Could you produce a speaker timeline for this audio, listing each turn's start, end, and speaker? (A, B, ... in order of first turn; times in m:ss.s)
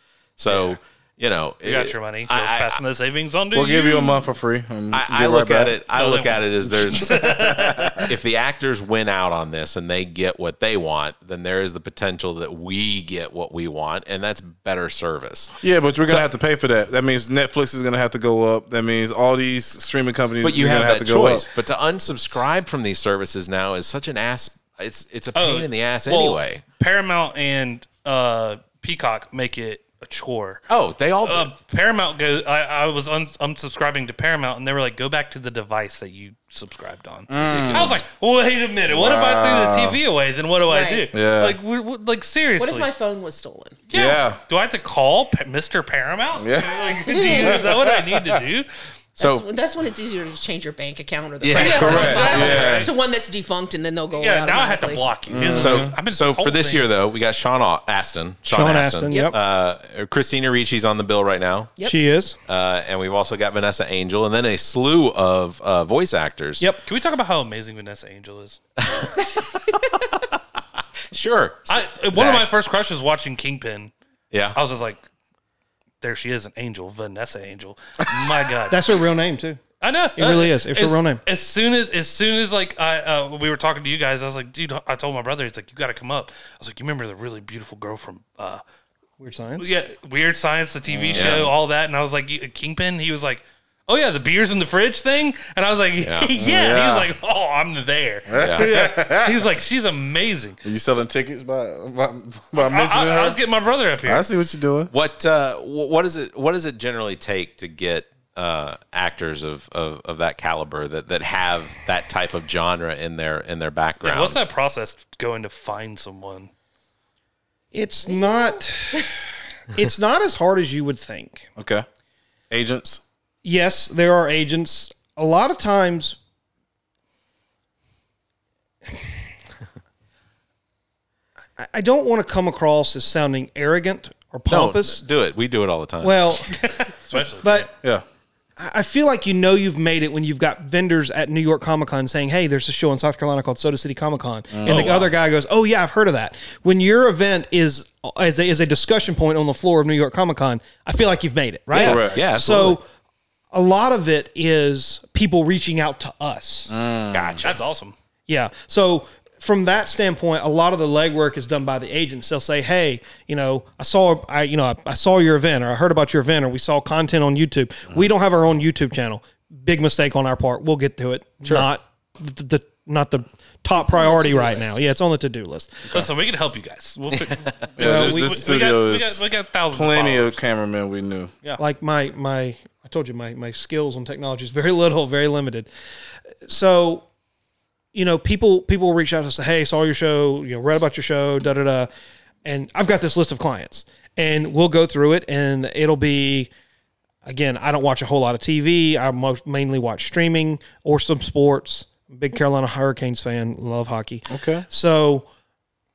0:00.4-0:02.8 A
0:00.5-0:00.8 B
0:01.6-0:04.2 B
0:03.5-0:05.8 C
0:04.9-0:07.2 A
0:05.9-0:08.1 B
0:07.1-0:07.8 C
0:08.1-0:15.5 A
0:15.6-0:21.5 C
0:20.4-0:26.6 A
0:25.4-0:30.6 B
0:30.7-0:31.5 A
0:31.2-0:42.9 B
0:37.3-0:38.0 C
0:38.9-0:40.0 C
0:40.7-0:41.1 D
0:41.1-0:41.6 C
0:42.6-0:43.8 D
0:43.9-0:48.7 B
0:43.9-0:44.4 C
0:46.4-0:48.4 C
0:47.1-0:47.6 D
0:49.2-0:49.5 A
0:49.2-0:55.1 D
0:51.4-0:52.2 A
0:51.5-0:52.9 B
0:51.6-0:52.9 C
0:54.1-0:56.9 B
0:55.3-0:55.9 C
0:55.5-1:01.7 A
0:58.5-0:59.4 E
0:59.1-0:59.4 D
1:01.8-1:02.4 E
1:02.5-1:06.7 A
1:06.9-1:08.6 B
1:11.1-1:12.5 A
1:11.7-1:13.9 B
1:14.3-1:14.6 A
1:14.5-1:15.0 B
1:16.0-1:18.8 B
1:18.7-1:19.6 E
1:19.8-1:28.6 B
1:20.2-1:21.2 E
1:29.2-1:29.8 E
1:29.6-1:40.6 B
1:30.9-1:31.5 C
1:31.1-1:31.5 A
1:36.0-1:36.3 A
1:36.4-1:37.1 C
1:38.3-1:39.4 C
1:38.4-1:38.7 A
1:40.6-1:43.4 C
1:42.6-1:44.2 B
1:44.0-1:44.9 C
1:44.9-1:54.4 A
1:54.0-1:56.5 B
1:57.7-1:59.2 E
1:58.1-1:58.6 D
1:59.7-2:01.5 E
2:01.6-2:01.8 C
2:02.5-2:03.0 C
2:03.4-2:06.2 E
2:11.6-2:15.0 E
2:14.5-2:16.4 A
2:16.0-2:16.5 E
2:16.5-2:17.7 B
2:17.4-2:17.7 E
2:18.6-2:32.9 E
2:24.5-2:24.9 C
2:24.7-2:25.0 A
2:31.7-2:32.8 A
2:31.8-2:32.2 C
2:33.5-2:36.7 E
2:36.7-2:37.5 C
2:37.1-2:37.5 A
2:37.2-2:38.0 B
2:38.3-2:55.9 E
2:53.8-2:54.7 D
2:55.9-3:00.4 B
2:57.8-2:59.2 C
2:57.8-2:58.4 E
2:59.7-3:01.3 C
3:01.6-3:05.7 E
3:06.5-3:07.1 E
3:07.9-3:11.9 E
3:12.4-3:16.5 E
3:17.2-3:25.3 E
3:24.3-3:24.6 C